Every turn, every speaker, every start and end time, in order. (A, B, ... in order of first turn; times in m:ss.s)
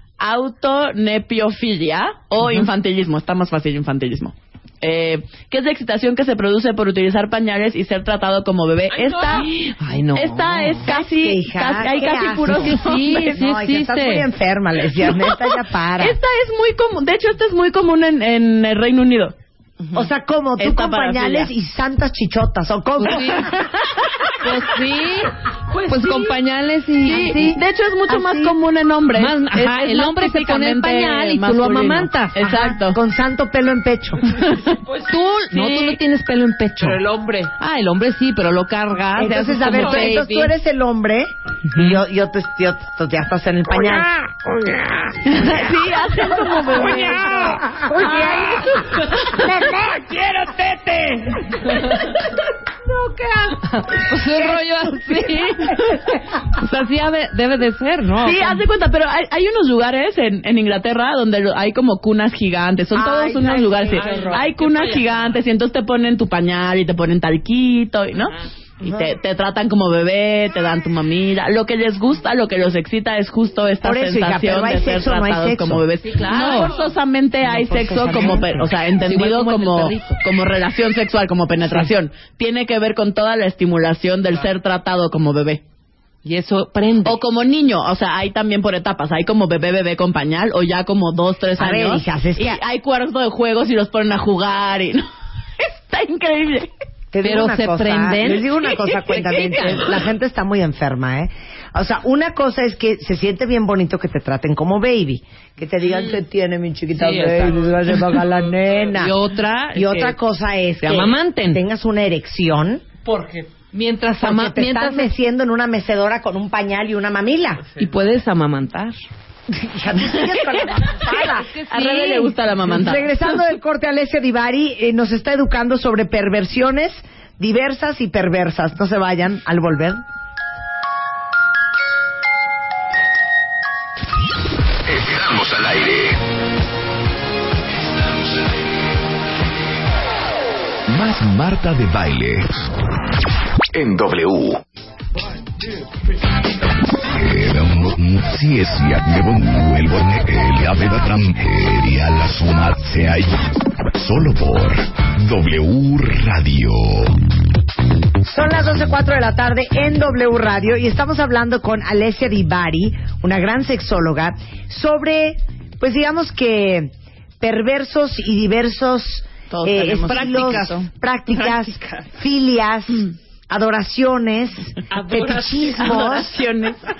0:00.2-0:09.5 A
0:08.9-0:09.4 B
0:09.3-0:10.9 C
0:10.1-0:13.4 A
0:10.8-0:16.2 D
0:12.4-0:14.3 C
0:15.2-0:19.3 A
0:19.9-0:23.6 D
0:20.6-0:21.5 A
0:23.0-0:23.6 C
0:23.2-0:24.4 A
0:24.4-0:25.3 C
0:25.7-0:26.4 B
0:25.9-0:27.6 C
0:27.0-0:33.0 A
0:27.1-0:28.5 D
0:29.2-0:32.4 C
0:32.4-0:34.2 D
0:34.3-0:34.8 A
0:34.7-0:35.2 B
0:35.0-0:37.0 C
0:35.5-0:36.0 A
0:36.8-0:37.5 B
0:37.6-0:40.5 C
0:39.2-0:44.7 D
0:39.8-0:40.2 B
0:41.7-0:42.0 C
0:45.3-0:45.6 D
0:45.3-0:47.6 A
0:46.8-0:50.1 D
0:48.6-0:49.4 B
0:49.9-0:51.5 B
0:53.6-0:58.6 C
0:58.2-1:25.6 A
1:02.9-1:04.3 D
1:04.0-1:05.4 B
1:08.8-1:09.1 D
1:13.8-1:15.8 D
1:16.0-1:16.7 C
1:17.4-1:18.7 D
1:18.8-1:20.2 C
1:26.2-1:27.2 C
1:27.0-1:35.0 A
1:31.6-1:32.6 D
1:35.6-1:36.7 A
1:37.1-1:49.1 D
1:37.2-1:39.9 C
1:47.0-1:47.7 C
1:48.3-1:48.7 B
1:48.9-1:50.2 C
1:49.7-1:52.8 D
1:50.8-1:51.6 C
1:53.0-1:53.5 B
1:53.7-1:55.1 C
1:54.2-1:57.6 D
1:57.8-1:59.0 C
1:59.5-2:01.5 D
2:00.1-2:00.9 A
2:01.2-2:02.3 C
2:01.7-2:03.3 A
2:02.6-2:10.0 D
2:14.8-2:16.2 E
2:20.9-2:22.5 E
2:23.7-2:24.6 E
2:26.9-2:37.2 E
2:38.2-2:56.4 D
2:49.5-2:51.7 A
2:50.0-2:50.8 C
2:54.9-2:55.9 B
2:55.7-2:56.8 A